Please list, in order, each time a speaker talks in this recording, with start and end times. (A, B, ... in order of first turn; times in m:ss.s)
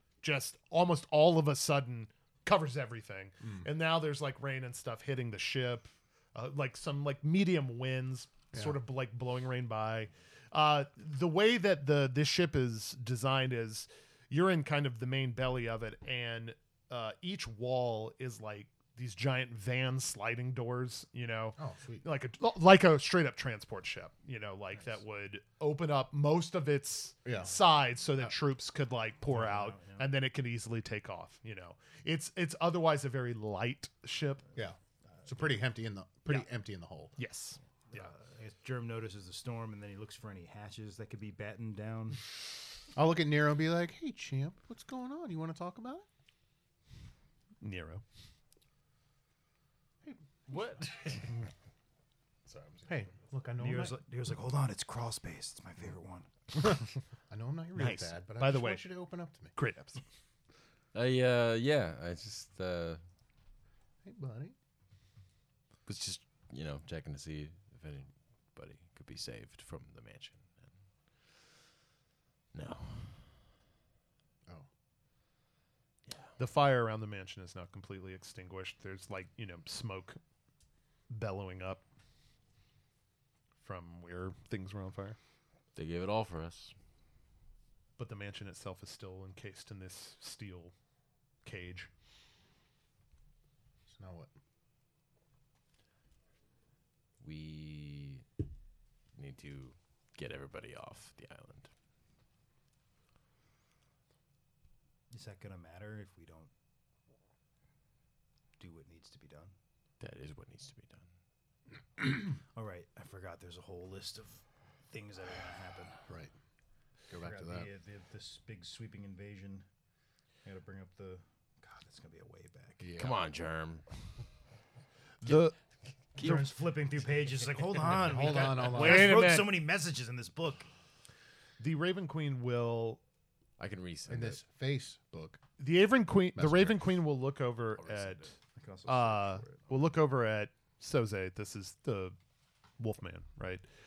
0:00.2-0:34.5 A
0:08.5-0:08.8 B
0:21.6-0:22.0 B
0:27.2-0:27.6 B
0:29.3-0:30.0 C
0:34.5-0:37.1 B
0:37.2-0:38.1 A
0:37.9-0:42.2 C
0:42.9-0:46.0 B
0:47.6-0:48.0 A
0:50.5-0:51.3 D
0:52.5-0:52.8 D
0:52.8-0:54.0 B
0:53.6-0:56.3 C
0:57.3-0:59.5 B
0:57.8-0:58.8 A
0:59.5-1:00.0 A
1:00.9-1:03.0 D
1:04.0-1:04.5 B
1:05.8-1:10.7 D
1:12.5-1:13.3 D
1:16.4-1:20.2 A
1:21.1-1:21.8 A
1:23.6-1:25.2 A
1:25.7-1:26.7 D
1:28.0-1:30.7 A
1:31.4-1:31.9 A
1:33.9-1:34.3 B
1:37.2-1:38.2 D
1:39.2-1:41.7 D
1:45.1-1:46.5 C
1:48.6-1:49.5 C
1:50.0-1:51.1 D
1:52.5-1:56.0 C
1:56.1-1:56.3 B
1:57.1-1:57.7 B
1:57.2-1:59.6 C
2:00.4-2:02.8 C
2:02.8-2:03.2 B
2:03.0-2:03.8 D
2:05.2-2:05.5 A
2:06.2-2:06.5 D
2:06.2-2:10.7 C
2:07.9-2:09.2 B
2:08.5-2:09.6 A
2:11.6-2:13.0 A
2:13.6-2:14.4 D
2:14.1-2:15.4 B
2:15.6-2:18.3 A
2:16.4-2:17.0 B
2:17.8-2:18.3 D
2:18.6-2:19.7 C
2:18.9-2:22.2 A
2:22.8-2:23.6 A